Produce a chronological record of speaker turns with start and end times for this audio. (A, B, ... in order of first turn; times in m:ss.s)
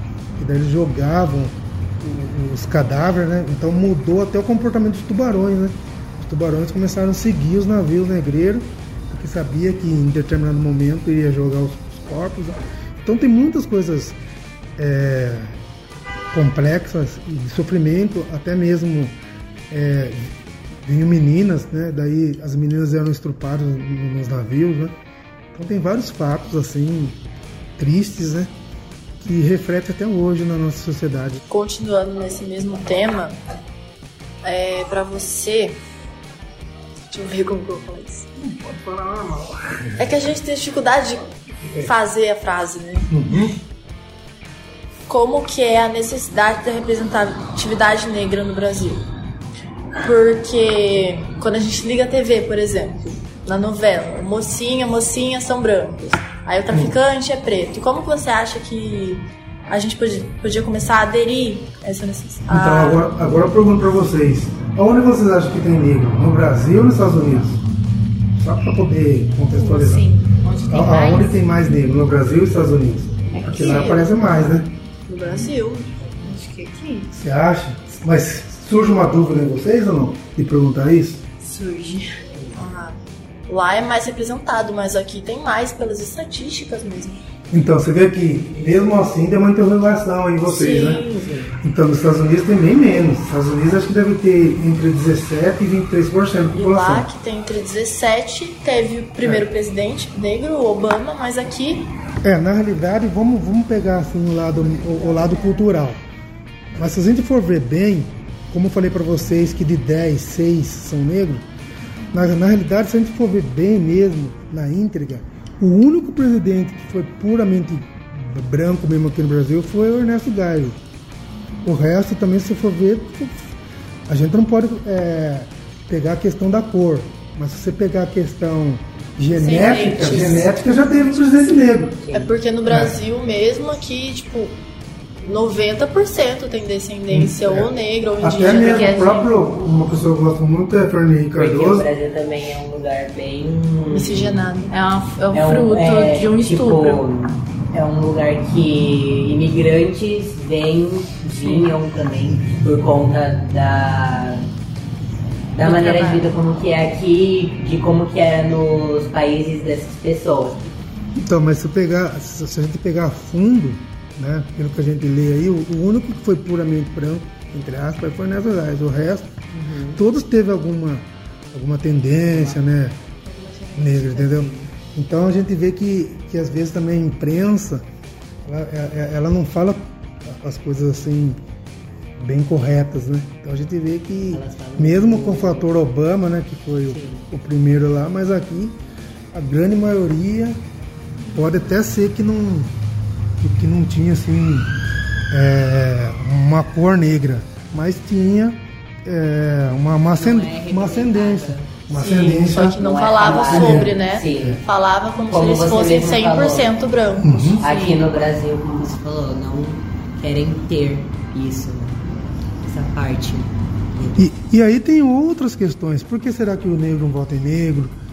0:00.4-0:14.2 A
0:14.8-0:15.5 A
0:16.3-0:19.1 A
0:19.7-0:24.9 A
0:25.5-0:27.2 A
0:27.8-0:28.5 A
0:29.2-0:31.4 A
0:31.5-0:33.4 B
0:34.4-0:35.8 B
0:37.1-0:38.3 B
0:38.4-0:40.1 A
0:40.0-0:43.1 B
0:43.1-0:43.6 A
0:45.1-0:49.0 B
0:50.0-1:03.0 B
1:02.5-1:07.6 A
1:08.4-1:10.1 A
1:09.6-1:11.3 C
1:10.7-1:14.7 A
1:13.4-1:14.1 B
1:13.5-1:13.8 C
1:15.1-1:17.1 B
1:17.1-1:21.2 A
1:21.4-1:23.0 B
1:23.5-1:27.2 B
1:27.5-1:31.0 A
1:30.4-1:31.3 B
1:31.6-1:37.1 A
1:36.5-1:41.9 B
1:42.2-1:46.0 A
1:46.8-1:51.4 A
1:52.1-2:00.8 A
2:01.6-2:03.4 A
2:04.1-2:12.1 A
2:09.3-2:10.5 B
2:12.0-2:12.3 D
2:12.1-2:14.6 B
2:12.7-2:12.9 A
2:15.2-2:19.3 B
2:17.1-2:21.8 A
2:18.5-2:19.2 C
2:21.3-2:24.5 D
2:23.9-2:24.8 B
2:24.7-2:27.0 C
2:25.3-2:34.4 D
2:35.5-2:40.7 D
2:35.6-2:36.2 B
2:41.1-2:49.3 A
2:49.5-2:50.0 D
2:49.9-2:53.0 A
2:53.4-2:54.7 D
2:53.7-2:57.8 A
2:58.4-3:01.4 A
3:02.2-3:08.8 A
3:04.3-3:05.7 D
3:06.9-3:07.3 D
3:09.3-3:10.6 A
3:11.3-3:12.7 A
3:13.4-3:14.7 A
3:15.3-3:24.6 A
3:20.2-3:24.6 D
3:21.9-3:28.0 B
3:25.3-3:26.7 D
3:27.2-3:27.6 A
3:27.6-3:32.0 D
3:32.6-3:34.3 D
3:34.2-3:37.9 A